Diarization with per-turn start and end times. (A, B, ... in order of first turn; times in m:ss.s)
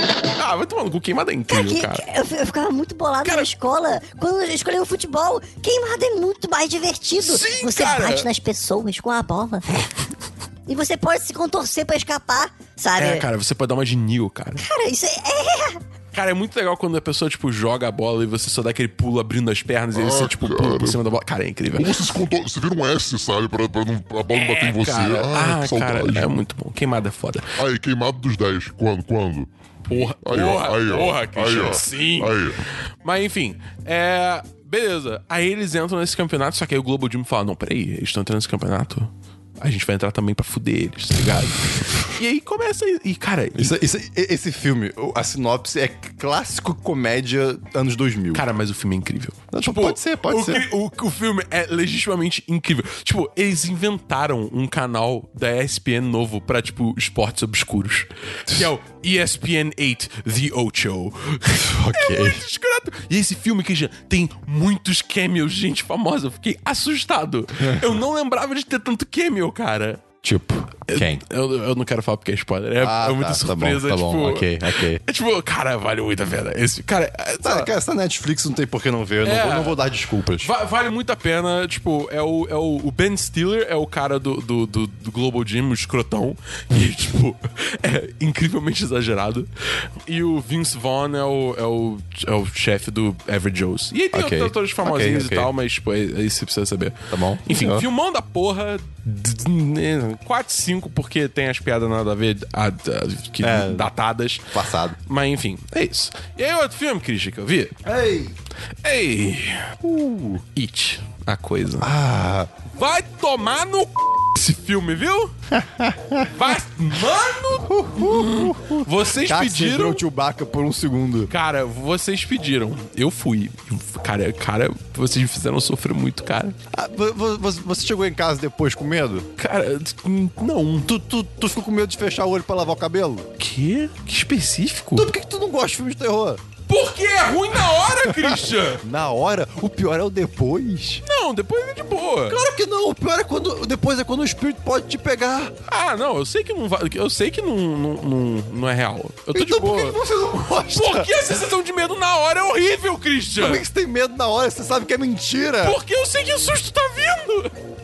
0:00.4-0:02.1 A
0:01.5-0:09.6 B
0:03.2-0:03.5 A
0:07.2-0:08.3 A
0:10.7-0:13.2 B
0:13.0-0:14.6 A
0:14.6-0:15.8 B
0:16.1-0:22.0 A
0:19.9-0:21.0 C
0:21.8-0:26.3 C
0:24.3-0:27.5 A
0:27.6-0:32.6 C
0:29.9-0:32.4 A
0:33.0-0:43.8 A
0:43.6-0:48.4 D
0:48.3-1:10.1 A
0:49.5-0:50.6 D
1:01.6-1:02.4 D
1:10.2-1:11.2 D
1:10.9-1:17.7 A
1:12.8-1:15.0 D
1:17.4-1:20.5 D
1:19.2-1:19.8 A
1:20.4-1:29.5 A
1:30.1-1:44.5 A
1:34.1-1:35.5 D
1:37.1-1:37.9 D
1:43.4-1:43.9 D
1:44.5-1:45.0 D
1:45.0-1:47.8 A
1:47.8-1:48.4 D
1:48.8-1:49.7 A
1:49.8-1:50.4 D
1:50.6-1:51.9 A
1:51.8-1:52.5 D
1:52.7-1:55.3 A
1:55.5-1:56.5 D
1:56.3-2:00.0 A
1:57.6-2:01.3 D
2:01.3-2:06.6 A
2:06.7-2:09.3 D
2:09.4-2:10.9 A
2:10.8-2:13.3 D
2:13.4-2:15.1 A
2:15.0-2:16.4 D
2:16.7-2:18.8 A
2:17.6-2:21.0 D
2:21.1-2:22.4 A
2:22.3-2:25.6 D
2:25.7-2:33.6 A
2:29.3-2:31.1 D
2:33.3-2:35.8 D
2:35.6-2:37.5 A